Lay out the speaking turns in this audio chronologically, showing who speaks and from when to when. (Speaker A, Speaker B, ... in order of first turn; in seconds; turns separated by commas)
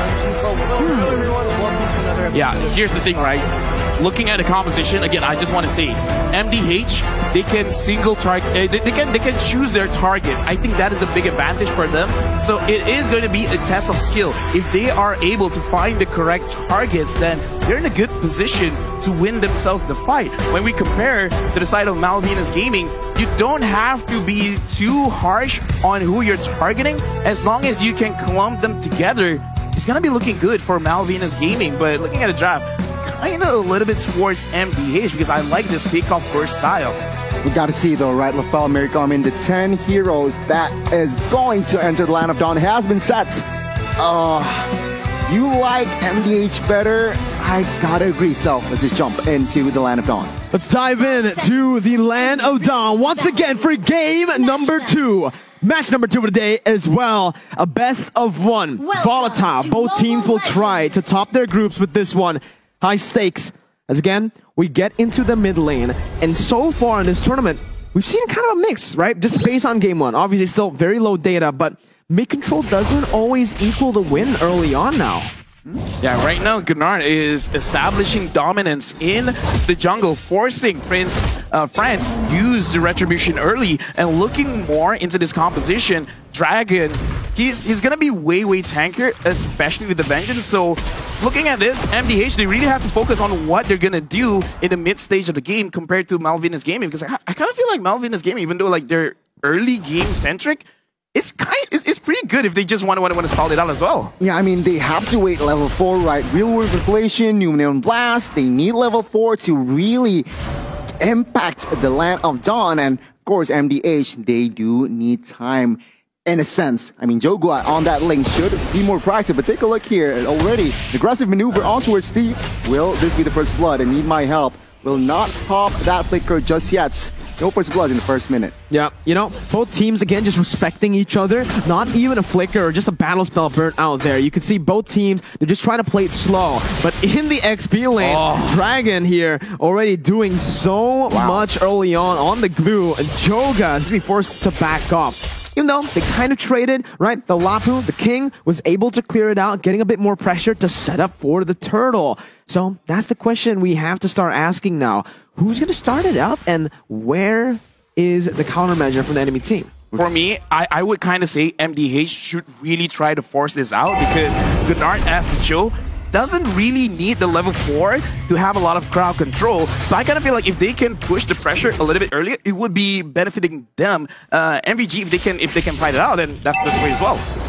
Speaker A: 0.8-1.3, Speaker B: 2.3-37.0, Speaker C: 37.4-43.5, Speaker C: 44.0-44.7, Speaker C: 45.3-50.3, Speaker A: 50.5-75.3, Speaker B: 76.0-104.1, Speaker C: 104.2-110.3, Speaker C: 111.0-128.5, Speaker A: 128.7-159.8, Speaker B: 138.0-138.6, Speaker C: 141.1-141.5, Speaker B: 159.9-177.2